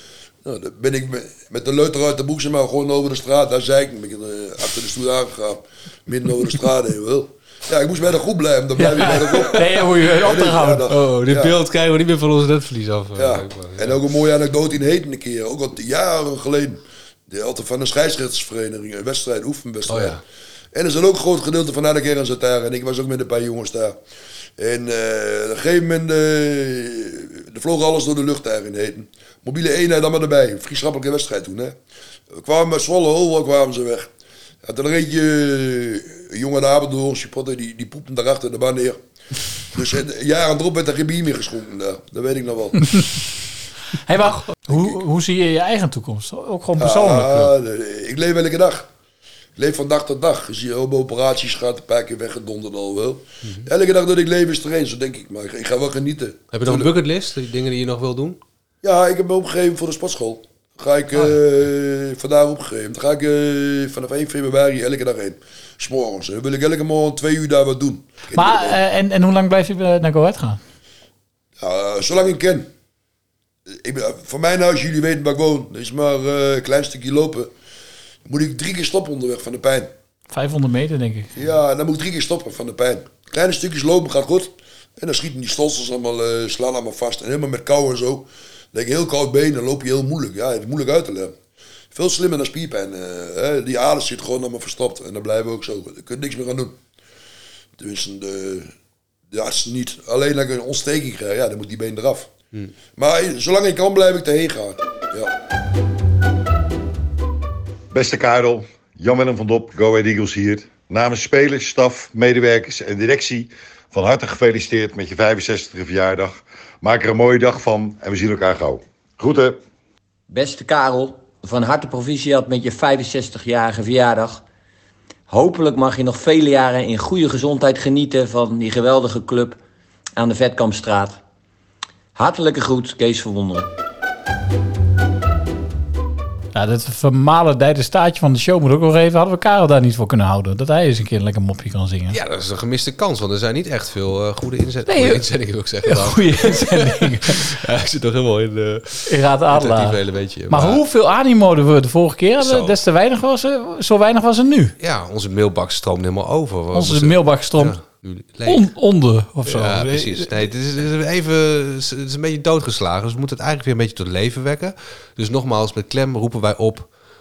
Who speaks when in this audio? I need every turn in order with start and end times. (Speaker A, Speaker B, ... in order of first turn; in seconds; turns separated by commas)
Speaker A: 0.4-11.6, Speaker B: 8.8-10.9, Speaker C: 10.9-14.0, Speaker A: 13.2-20.2, Speaker C: 19.9-20.2, Speaker A: 20.7-24.0, Speaker A: 24.6-31.8, Speaker A: 32.3-34.1, Speaker A: 34.6-39.0, Speaker A: 39.7-42.8, Speaker B: 44.1-47.5, Speaker A: 44.7-44.9, Speaker A: 46.8-48.9, Speaker A: 49.6-56.9, Speaker C: 56.5-58.4, Speaker A: 58.8-68.8, Speaker B: 68.3-70.6, Speaker A: 71.6-72.7, Speaker A: 73.7-77.5, Speaker A: 78.2-79.9, Speaker B: 80.3-81.4, Speaker A: 81.3-91.3, Speaker A: 91.9-96.8, Speaker A: 97.8-98.7, Speaker A: 99.3-102.3, Speaker A: 103.0-105.3, Speaker D: 107.9-119.6, Speaker E: 120.3-124.4, Speaker E: 125.3-129.6, Speaker E: 130.2-131.2, Speaker E: 132.2-133.7, Speaker B: 136.5-142.2, Speaker C: 142.1-150.8, Speaker B: 144.9-145.2, Speaker B: 145.8-147.4, Speaker B: 149.1-154.7, Speaker C: 152.4-152.8, Speaker C: 154.8-158.7, Speaker B: 156.7-157.8, Speaker B: 158.5-160.3, Speaker C: 159.4-166.9